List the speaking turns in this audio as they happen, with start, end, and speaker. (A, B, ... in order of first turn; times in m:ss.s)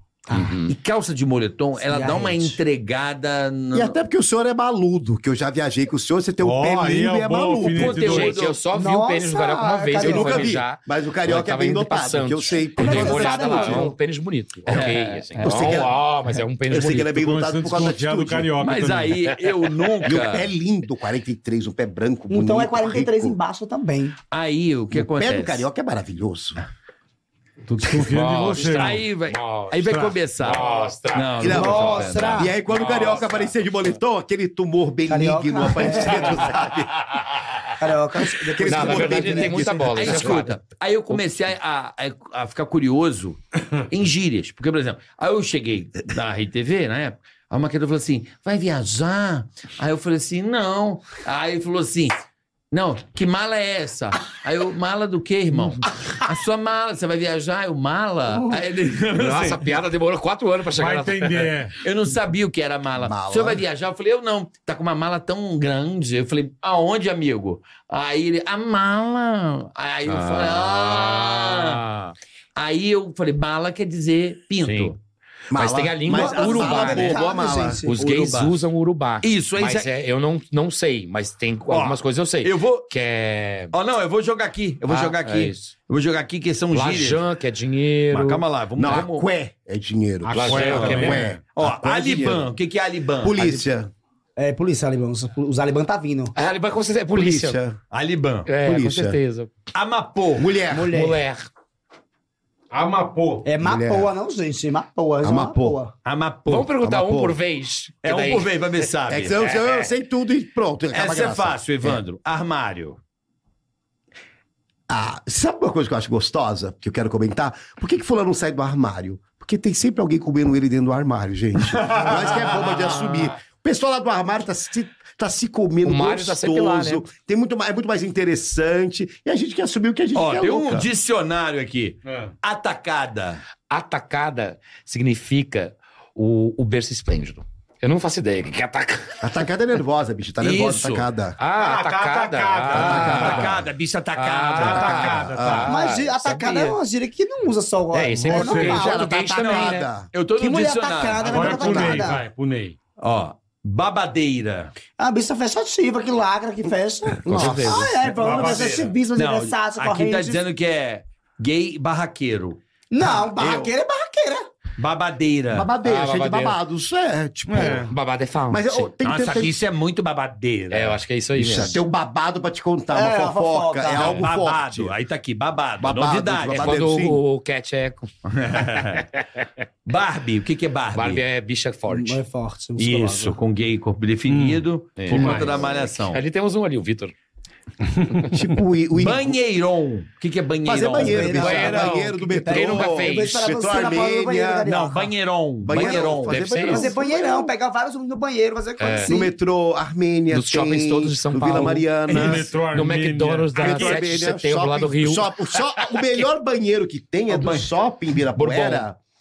0:00.3-0:00.6 A
0:00.3-0:00.7 B
0:00.7-0:04.0 C
0:01.8-0:02.6 A
0:03.7-0:08.1 D
0:06.4-0:08.4 E
0:07.6-0:08.6 C
0:07.9-0:17.2 B
0:08.7-0:10.6 A
0:10.0-0:13.9 D
0:12.8-0:14.0 A
0:14.7-0:15.9 C
0:15.4-0:16.0 D
0:16.7-0:18.5 D
0:16.9-0:19.2 E
0:18.6-0:20.5 C
0:20.0-0:23.4 D
0:22.3-0:24.2 A
0:24.3-0:25.6 C
0:24.9-0:26.6 D
0:27.6-0:29.0 E
0:28.0-0:33.5 B
0:28.5-0:33.1 C
0:31.4-0:37.1 D
0:31.4-0:32.5 A
0:35.1-0:36.4 A
0:37.8-0:39.8 A
0:38.4-0:40.4 D
0:38.6-0:40.6 B
0:39.9-0:52.2 C
0:52.7-0:59.7 C
0:59.1-1:01.5 B
1:00.7-1:01.8 E
1:01.8-1:11.8 C
1:03.0-1:03.6 D
1:10.0-1:12.1 B
1:12.6-1:15.0 C
1:14.6-1:14.9 B
1:15.5-1:17.8 D
1:15.5-1:17.3 B
1:16.1-1:18.0 A
1:17.8-1:23.7 B
1:17.9-1:18.6 C
1:19.2-1:19.9 C
1:21.7-1:22.9 C
1:23.7-1:27.2 C
1:24.9-1:25.7 B
1:26.7-1:29.0 B
1:28.1-1:29.3 C
1:28.8-1:32.5 D
1:30.2-1:31.4 E
1:30.3-1:31.2 B
1:30.4-1:33.4 C
1:33.2-1:33.9 D
1:34.4-1:36.3 A
1:36.3-1:37.6 B
1:37.1-1:37.8 D
1:37.9-1:38.5 C
1:38.4-1:39.5 B
1:38.6-1:39.2 D
1:39.7-1:40.5 C
1:40.4-1:41.0 D
1:40.7-1:41.2 A
1:40.8-1:41.5 B
1:42.7-1:43.5 E
1:43.4-1:45.9 A
1:43.6-1:44.1 D
1:45.2-1:45.8 D
1:46.0-1:46.7 C
1:46.5-1:48.6 B
1:46.8-1:47.4 D
1:48.0-1:49.6 C
1:49.1-1:52.0 D
1:50.9-1:53.0 C
1:54.9-2:10.9 D
2:01.8-2:02.7 C
2:05.8-2:07.0 B
2:10.1-2:13.4 C
2:12.0-2:12.3 E
2:13.7-2:19.3 B
2:19.2-2:21.4 D
2:20.4-2:21.1 C
2:21.4-2:23.6 B
2:21.5-2:23.5 E
2:22.7-2:23.6 D
2:22.7-2:25.2 C
2:24.1-2:26.8 B
2:24.5-2:25.6 E
2:24.9-2:25.7 D
2:25.6-2:29.1 A
2:27.9-2:29.9 B
2:28.1-2:28.9 E
2:28.5-2:30.1 D
2:29.3-2:32.1 C
2:30.4-2:32.2 A
2:31.2-2:32.8 E
2:33.0-2:34.7 C
2:35.0-2:40.4 A
2:37.2-2:37.9 D
2:37.2-2:37.9 B
2:38.1-2:39.0 E
2:39.1-2:42.6 C
2:42.9-2:44.5 A
2:43.4-2:43.6 C
2:44.8-2:45.7 C
2:45.5-2:47.9 D
2:45.8-2:46.6 B
2:47.5-2:47.9 E
2:47.5-2:48.9 B
2:48.5-2:49.6 D
2:49.0-2:51.0 C
2:50.7-2:51.8 B
2:51.4-2:54.9 D
2:52.9-2:54.2 A
2:53.9-2:56.8 C
2:55.8-2:57.2 D
2:56.5-2:59.4 B
2:58.2-2:59.0 C
2:59.8-3:01.2 C
3:00.9-3:02.2 B
3:01.9-3:03.4 A
3:02.8-3:06.2 C
3:04.3-3:05.6 E
3:05.0-3:07.1 B
3:08.3-3:09.4 D
3:08.9-3:11.5 C
3:10.6-3:14.7 D
3:10.9-3:15.1 A
3:11.2-3:13.5 B
3:14.7-3:16.4 C
3:15.6-3:17.5 D
3:16.3-3:16.9 B
3:16.6-3:19.3 A
3:18.8-3:19.2 B
3:19.0-3:22.5 D
3:20.3-3:26.1 B
3:22.1-3:24.0 E
3:23.5-3:29.0 D
3:27.3-3:27.7 C
3:28.4-3:28.9 B